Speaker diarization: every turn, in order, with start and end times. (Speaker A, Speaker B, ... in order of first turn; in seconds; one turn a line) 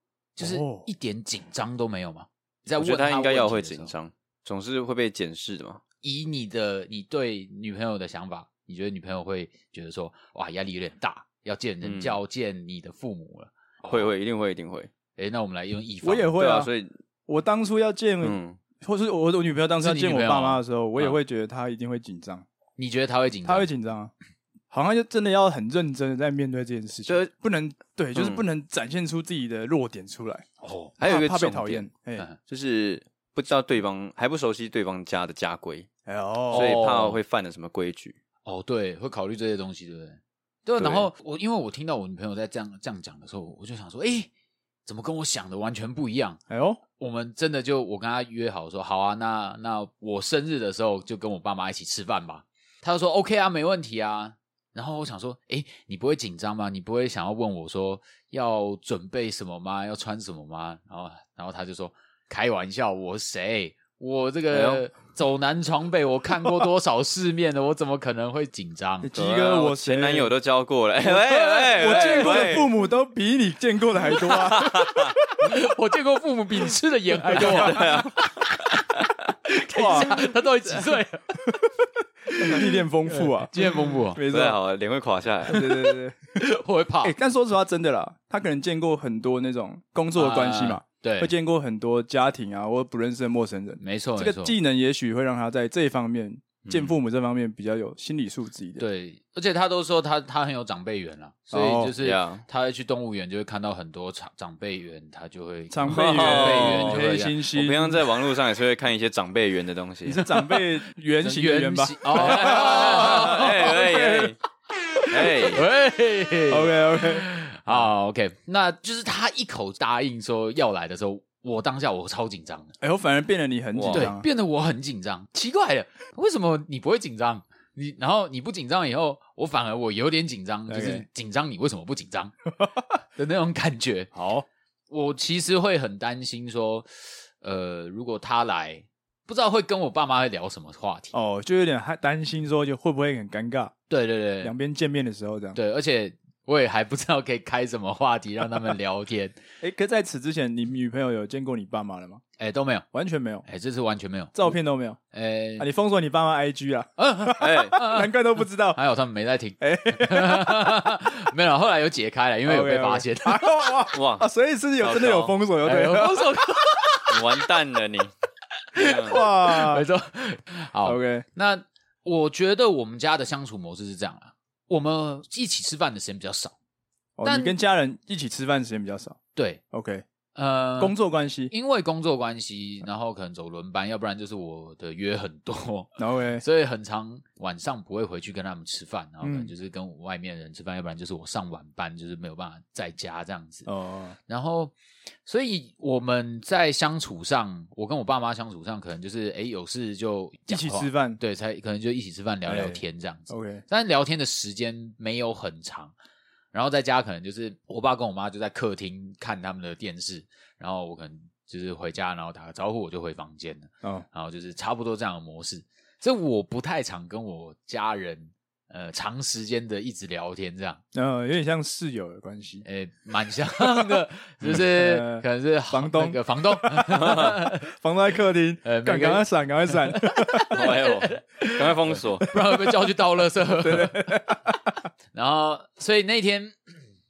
Speaker A: 0.4-3.9
Speaker B: 0.4-0.9
Speaker C: 2.8-5.8
Speaker A: 6.0-14.1
Speaker C: 11.8-12.2
Speaker C: 13.9-14.9
Speaker A: 15.2-16.4
Speaker B: 16.0-16.7
Speaker C: 16.4-16.9
Speaker B: 17.3-22.5
Speaker C: 18.2-18.6
Speaker A: 19.8-20.6
Speaker A: 22.8-23.7
Speaker B: 23.4-24.1
Speaker B: 24.7-30.5
Speaker C: 28.2-28.4
Speaker A: 30.6-31.0
Speaker C: 31.0-31.9
Speaker B: 31.0-32.3
Speaker C: 32.4-35.9
Speaker B: 36.1-36.8
Speaker A: 36.5-37.2
Speaker C: 36.5-38.2
Speaker A: 38.5-44.3
Speaker A: 44.9-46.4
Speaker B: 46.5-46.8
Speaker A: 47.0-69.1
Speaker C: 64.5-64.8
Speaker B: 69.0-70.3
Speaker C: 69.1-72.7
Speaker B: 71.0-75.2
Speaker A: 71.2-72.6
Speaker A: 74.2-74.7
Speaker C: 74.6-75.2
Speaker A: 75.4-81.5
Speaker B: 77.3-78.0
Speaker C: 77.3-78.2
Speaker B: 79.7-80.2
Speaker A: 82.3-84.2
Speaker B: 82.3-84.6
Speaker C: 84.3-85.7
Speaker B: 85.5-86.3
Speaker A: 86.3-87.2
Speaker B: 87.0-98.8
Speaker A: 90.2-91.3
Speaker A: 93.8-94.6
Speaker C: 96.7-97.0
Speaker A: 98.8-107.4
Speaker B: 101.5-101.9
Speaker C: 102.0-102.4
Speaker B: 105.7-108.0
Speaker C: 105.9-110.2
Speaker B: 110.1-114.3
Speaker A: 111.2-113.8
Speaker C: 112.3-114.4
Speaker A: 115.0-122.7
Speaker C: 115.1-115.7
Speaker B: 116.5-117.3
Speaker B: 122.8-124.2
Speaker C: 123.8-124.1
Speaker A: 123.9-132.3
Speaker B: 130.7-131.1
Speaker A: 133.2-134.1
Speaker B: 134.1-134.5
Speaker A: 134.9-141.1
Speaker B: 141.1-143.7
Speaker A: 143.9-144.5
Speaker B: 144.4-145.6
Speaker A: 145.5-149.4
Speaker B: 149.6-152.2
Speaker A: 152.4-152.8
Speaker B: 152.9-153.4
Speaker A: 153.4-154.6
Speaker B: 154.3-155.0
Speaker A: 155.1-155.7
Speaker B: 155.6-158.8
Speaker A: 157.0-158.2
Speaker C: 157.4-157.8
Speaker A: 158.7-163.8
Speaker B: 159.6-160.8
Speaker B: 162.4-166.3
Speaker C: 163.9-164.3
Speaker C: 164.8-165.4
Speaker A: 165.6-167.4
Speaker C: 167.1-168.1
Speaker A: 168.8-176.6
Speaker C: 168.8-169.2
Speaker B: 169.0-169.9
Speaker B: 170.8-171.2
Speaker B: 177.2-179.2
Speaker A: 177.2-177.6
Speaker A: 179.3-179.6
Speaker B: 179.7-180.1
Speaker A: 180.3-181.0
Speaker B: 180.8-181.5
Speaker A: 181.5-193.7
Speaker B: 186.0-186.4
Speaker B: 189.2-189.5
Speaker B: 193.7-194.2
Speaker A: 194.3-194.7
Speaker A: 195.2-205.9
Speaker B: 200.5-201.2
Speaker B: 202.5-203.6
Speaker A: 206.5-220.8
Speaker B: 220.9-222.7
Speaker A: 222.6-227.7
Speaker B: 224.5-230.7
Speaker A: 228.6-234.5
Speaker C: 230.5-232.3
Speaker B: 233.6-234.8
Speaker A: 235.1-236.6